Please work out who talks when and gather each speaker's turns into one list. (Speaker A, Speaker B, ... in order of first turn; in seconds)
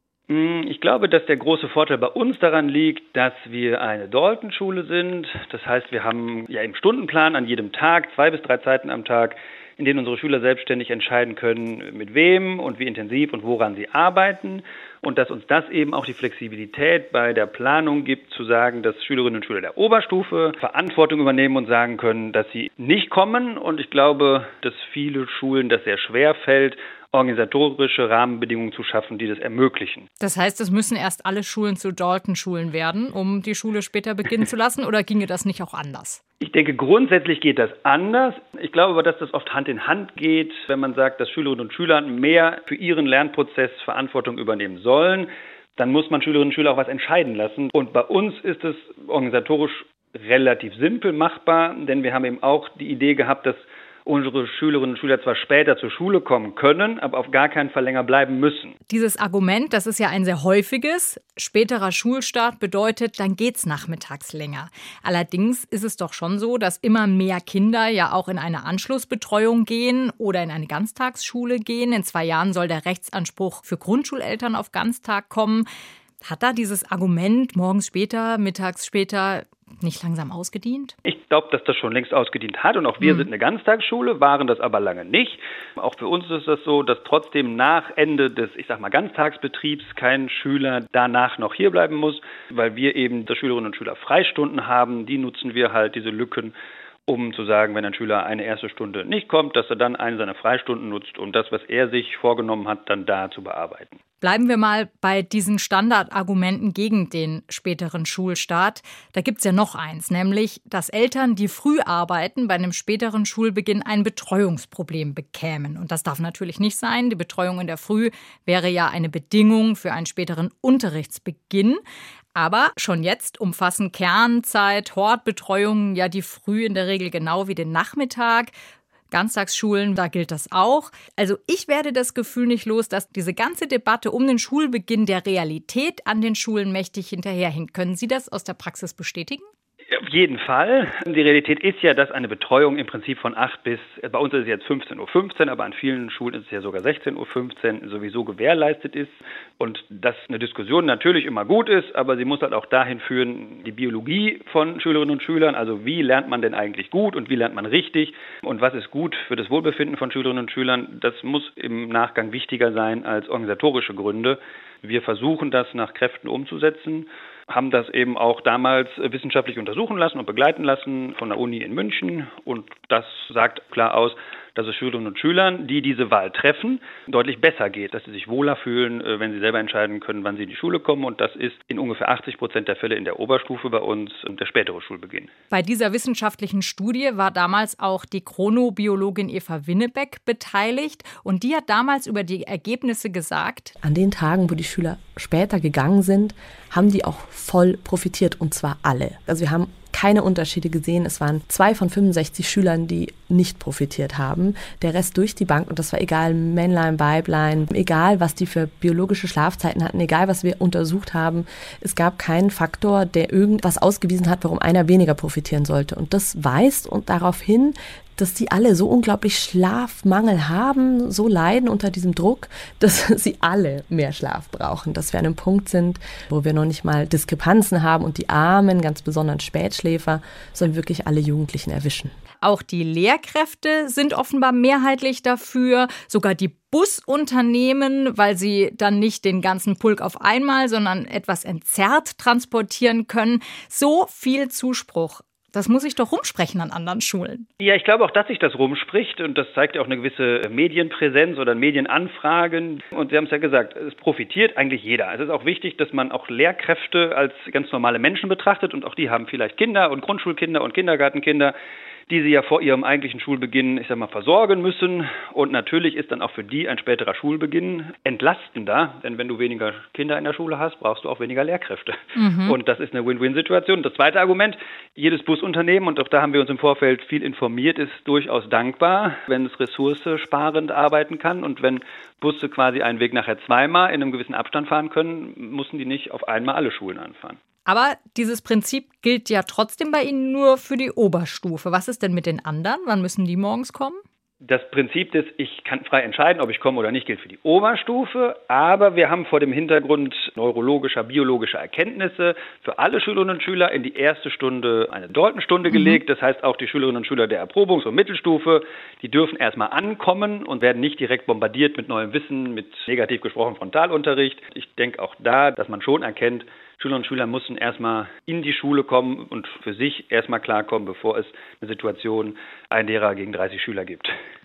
Speaker A: 0.3-30.1, 36.4-58.7, 81.0-96.5, 97.1-104.0, 139.9-185.3, 247.6-261.5, 262.1-287.4, 294.4-324.1
Speaker B: 30.2-36.2, 58.9-75.7, 76.2-80.9, 83.0-83.3, 104.2-121.8, 122.3-128.5, 129.1-139.5, 185.5-193.7, 232.4-247.5, 272.1-272.6, 287.6-294.0
Speaker C: 193.8-232.1